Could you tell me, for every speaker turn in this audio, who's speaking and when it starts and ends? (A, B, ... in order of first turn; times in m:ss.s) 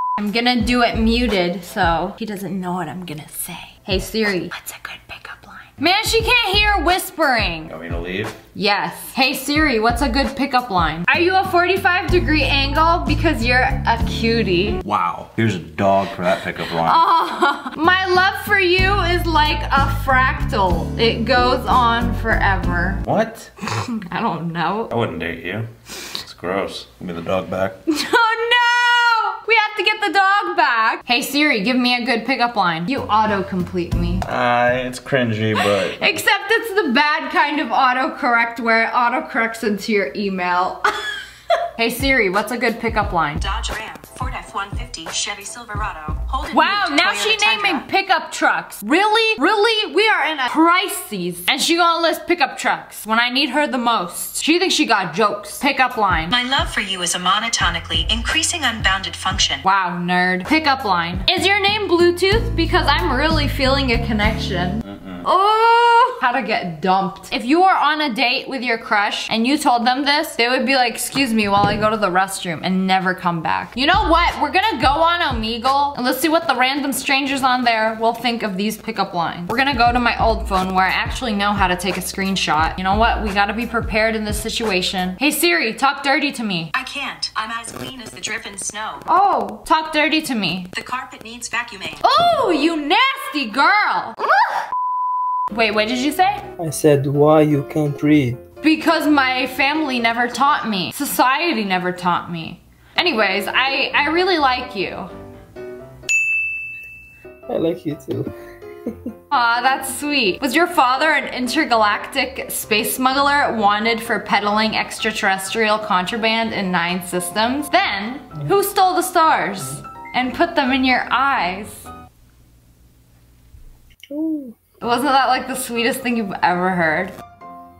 0:00.2-0:07.7 A
0:07.7-0:08.4 B
0:08.5-0:14.8 A
0:14.8-0:17.0 B
0:16.8-0:23.0 A
0:23.0-0:23.5 B
0:23.8-0:24.9 A
0:24.9-0:27.8 B
0:27.9-0:34.2 A
0:34.2-0:36.1 B
0:35.6-0:40.8 A
0:41.8-0:43.4 A
0:43.4-0:47.8 C
0:46.5-0:56.3 A
0:56.3-0:59.6 C
0:59.6-1:26.7 A
1:04.8-1:05.2 B
1:26.7-1:29.0 C
1:29.1-1:30.7 A
1:30.7-1:32.0 C
1:32.0-1:34.2 A
1:35.5-1:36.4 A
1:36.6-1:38.4 D
1:38.6-1:45.1 A
1:47.5-1:48.3 D
1:49.3-2:01.9 A
2:04.1-2:04.6 D
2:04.8-2:07.1 A